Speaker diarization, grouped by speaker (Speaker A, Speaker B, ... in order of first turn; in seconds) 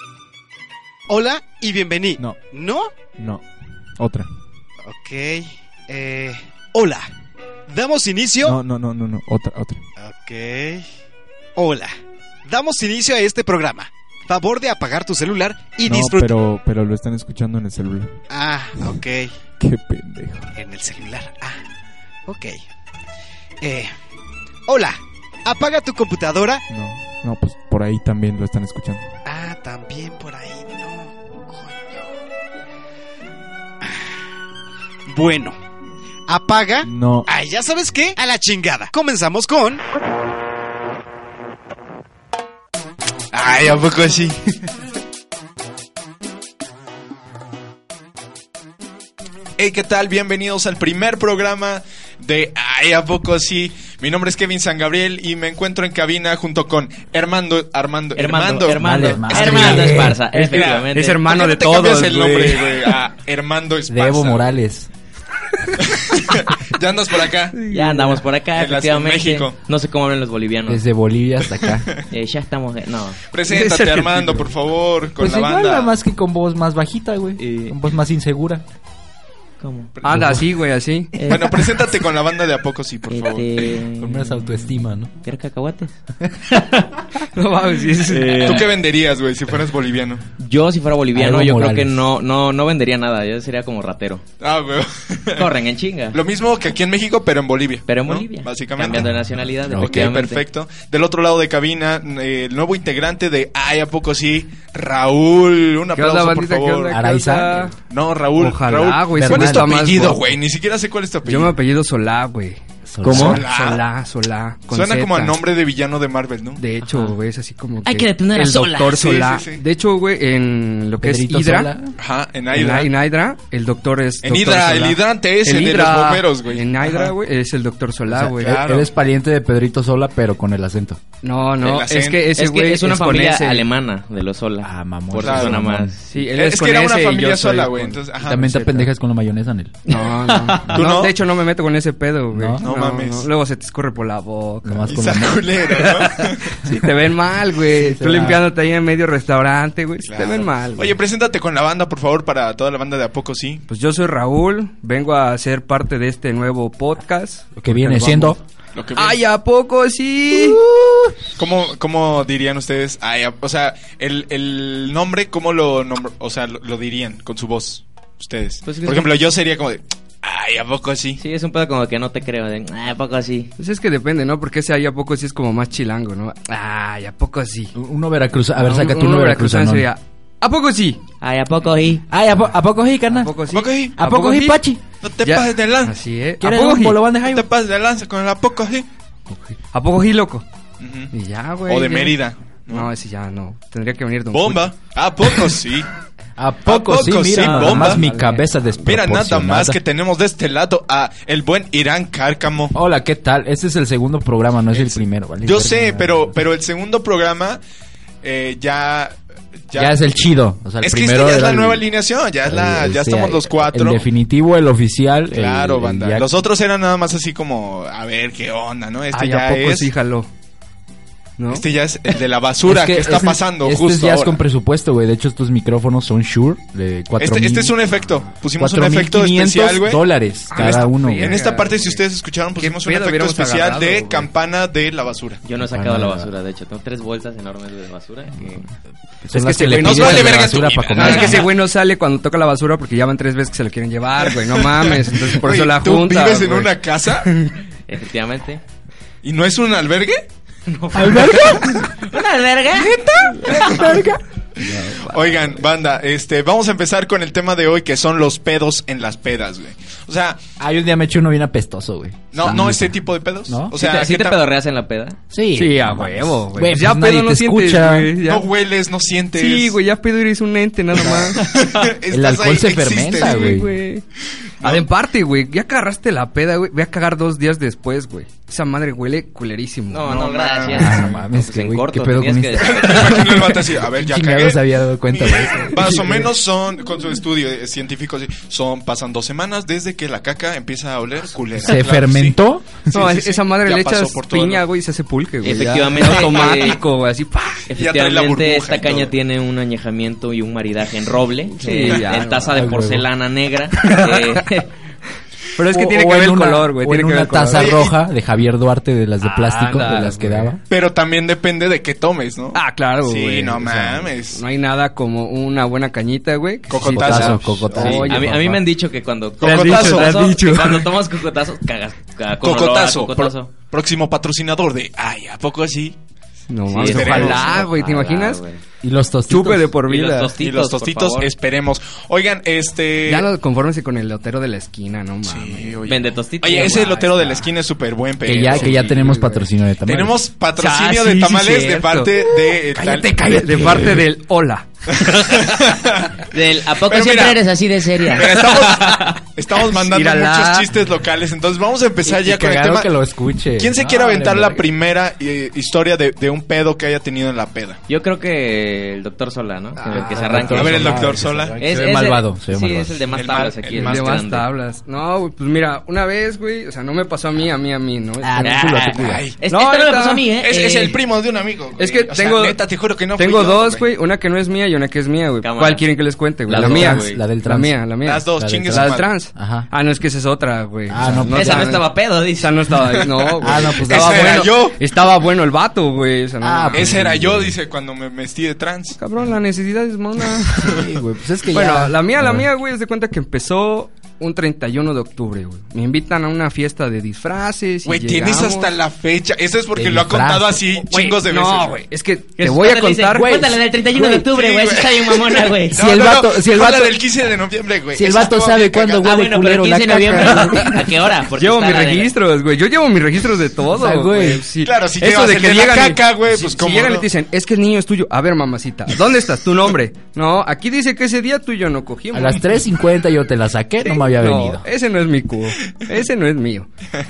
Speaker A: 1.1-2.9, 4.8-7.1, 7.7-8.6, 10.0-10.8, 11.6-11.9, 12.5-16.4, 18.3-19.3, 20.5-21.6, 22.3-22.6, 23.6-23.9, 24.7-26.6, 29.2-32.1, 35.1-35.6, 36.3-39.8
Speaker B: 8.5-8.7, 9.2-9.8, 15.9-18.1, 19.6-20.5, 26.7-29.0, 36.9-37.2
Speaker C: 16.0-16.3, 43.3-44.4, 49.6-64.5, 65.8-67.7, 68.5-69.5, 73.3-75.9, 80.0-80.3, 81.3-83.7, 88.4-90.2, 94.4-95.5, 96.1-99.1, 99.8-107.0, 107.9-111.6, 113.1-113.8, 114.7-116.6, 118.8-119.6, 122.0-122.9, 124.2-127.1, 128.3-128.9, 131.6-132.3, 135.2-135.6, 136.3-138.5, 140.7-141.2, 142.6-143.3, 144.9-146.6, 150.0-153.7, 158.8-159.2, 161.4-171.2, 183.5-184.1, 185.0-186.0, 187.2-188.9, 190.8-191.1, 191.7-192.9, 194.3-195.9, 196.7-198.1, 198.8-202.8, 204.7-207.6, 208.2-210.0, 210.8-214.1, 215.3-219.9, 221.5-224.4, 227.2-235.4, 239.7-241.6, 244.3-247.3, 249.2-250.2, 254.7-260.4, 262.3-264.4, 268.2-269.8, 271.0-273.6, 274.6-274.9, 280.0-281.2, 282.6-292.4, 292.9-294.6, 297.7-299.1, 307.5-307.9, 310.7-314.4, 316.7-318.1, 319.4-320.4, 322.4-326.0, 326.8-327.6, 330.4-333.3, 335.2-339.1, 339.9-343.2, 344.9-346.3, 346.8-347.4, 348.1-352.9, 353.6-357.8, 360.1-361.6, 363.1-364.3, 368.9-369.4, 370.4-373.9, 378.0-379.1, 383.2-384.9, 386.7-389.0, 390.4-390.8, 397.9-401.8, 404.3-409.2, 410.0-410.3, 414.6-417.1
Speaker D: 58.2-61.2, 67.7-70.8, 72.1-73.2, 77.4-77.8, 79.6-79.9, 81.2-81.9, 83.1-86.0, 86.5-87.1, 88.0-88.7, 90.4-94.2, 95.4-96.2, 97.9-100.4, 113.0-113.4, 116.9-117.2, 117.8-119.0, 132.4-136.0, 140.0-140.7, 168.7-169.2, 171.2-173.5, 181.2-182.0, 197.3-197.9, 235.4-238.7, 247.9-248.6, 250.7-253.6, 263.8-265.2, 271.4-271.9, 279.9-283.6, 295.4-296.8, 297.7-304.7, 317.8-323.5, 326.7-328.6, 329.9-331.3, 335.9-337.4, 346.3-349.2, 357.9-364.5, 368.4-371.0, 375.4-375.9, 376.5-377.2, 381.3-382.8, 402.4-405.8, 409.0-412.1
Speaker E: 58.8-60.2, 63.9-64.9, 70.7-71.9, 75.2-78.6, 80.1-80.5, 84.0-85.1, 91.1-92.0, 99.7-100.1, 106.9-107.7, 109.1-110.1, 112.9-113.5, 121.0-121.9, 128.1-131.0, 134.6-135.9, 138.2-139.8, 142.3-142.6, 144.6-145.6, 147.9-148.4, 157.6-158.4, 160.3-161.2, 177.8-179.9, 182.1-183.3, 184.0-184.8, 186.4-187.4, 196.4-199.8, 202.7-206.4, 209.8-211.9, 212.4-216.3, 222.7-227.8, 228.6-231.4, 235.6-236.3, 239.3-241.5, 250.9-251.9, 253.4-255.2, 260.6-263.7, 265.3-268.2, 272.1-273.7, 280.7-286.3, 291.6-292.9, 302.5-303.1, 305.7-310.6, 316.8-318.6, 328.8-329.7, 338.2-340.2, 342.5-344.0, 352.1-354.7, 359.9-363.2, 368.2-369.2, 376.5-377.8, 378.4-379.7, 380.9-381.8, 383.4-384.5, 386.4-387.5, 390.6-392.5, 399.8-400.8, 403.1-404.3, 405.7-407.0, 407.9-410.9, 413.7-414.4, 422.1-424.6
Speaker F: 60.3-62.8, 67.5-68.2, 73.5-74.5, 80.0-81.2, 87.2-88.6, 105.9-107.8, 108.3-110.2, 111.2-115.4, 116.6-121.7, 122.5-128.7, 131.2-133.7, 136.1-138.9, 139.9-151.0, 153.7-158.4, 158.9-160.6, 173.6-177.8, 178.6-181.0, 183.1-184.6, 185.2-187.1, 189.7-190.4, 191.1-192.2, 192.7-194.7, 197.8-198.6, 219.1-220.3, 221.4-221.7, 230.5-232.0, 232.6-234.3, 239.3-246.7, 247.2-247.5, 254.7-255.4, 265.6-268.5, 269.4-271.5, 273.1-274.1, 274.6-280.3, 285.8-286.3, 292.9-297.7, 301.6-302.7, 303.8-304.5, 305.6-307.9, 309.2-310.5, 312.6-318.3, 319.4-320.9, 326.5-328.4, 329.3-330.3, 333.1-335.8, 338.4-339.5, 340.6-342.1, 343.2-344.7, 348.2-349.1, 349.7-350.7, 359.8-360.5, 363.7-368.9, 369.5-370.3, 371.8-372.6, 373.1-387.0, 389.0-390.8, 391.5-398.7, 400.9-403.4, 410.1-410.8, 411.4-422.4, 424.0-426.7